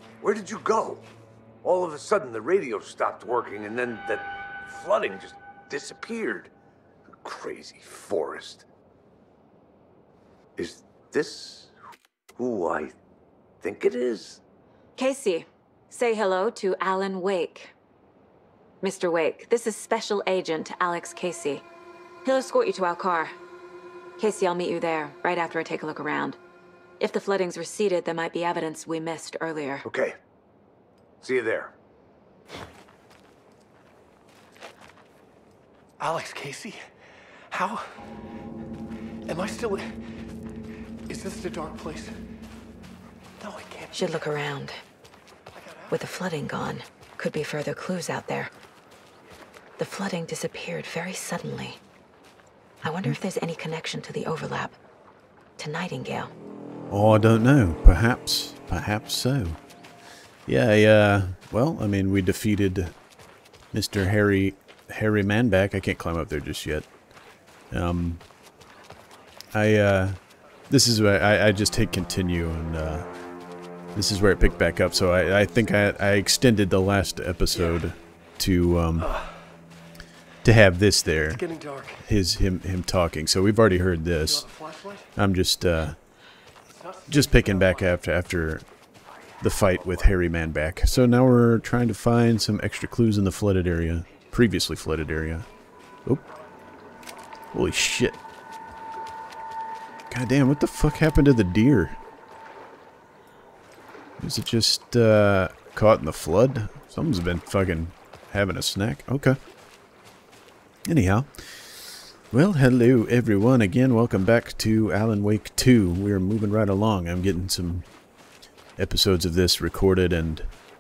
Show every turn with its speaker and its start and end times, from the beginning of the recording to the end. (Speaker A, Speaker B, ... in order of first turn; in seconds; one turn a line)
Speaker A: 0.2-1.1
Speaker A: 1.6-6.5
Speaker A: 7.2-8.7
Speaker A: 10.6-11.7
Speaker A: 12.3-13.0
Speaker A: 13.6-14.4
Speaker B: 15.0-17.7
Speaker B: 18.8-21.6
Speaker B: 22.2-23.3
Speaker B: 24.2-26.4
Speaker B: 27.0-29.8
Speaker A: 29.8-30.1
Speaker A: 31.2-31.7
Speaker C: 36.0-36.8
Speaker C: 37.5-37.9
Speaker C: 39.3-40.0
Speaker C: 41.1-42.2
Speaker C: 43.4-44.2
Speaker B: 43.9-44.8
Speaker C: 45.5-46.1
Speaker B: 45.9-48.5
Speaker B: 49.8-51.8
Speaker B: 52.8-54.8
Speaker D: 52.8-53.2
Speaker B: 55.6-56.3
Speaker D: 56.9-59.6
Speaker D: 60.5-63.0
Speaker D: 63.7-66.9
Speaker D: 67.7-68.2
Speaker D: 69.5-73.1
Speaker D: 73.9-79.1
Speaker C: 77.5-77.8
Speaker C: 79.0-79.5
Speaker D: 80.4-81.4
Speaker C: 81.2-82.0
Speaker D: 82.0-84.5
Speaker C: 84.2-85.1
Speaker D: 85.2-86.0
Speaker C: 86.7-88.0
Speaker D: 87.1-88.7
Speaker D: 89.4-95.5
Speaker D: 97.5-98.2
Speaker D: 100.1-102.0
Speaker D: 104.2-109.4
Speaker D: 110.8-117.9
Speaker D: 118.8-120.5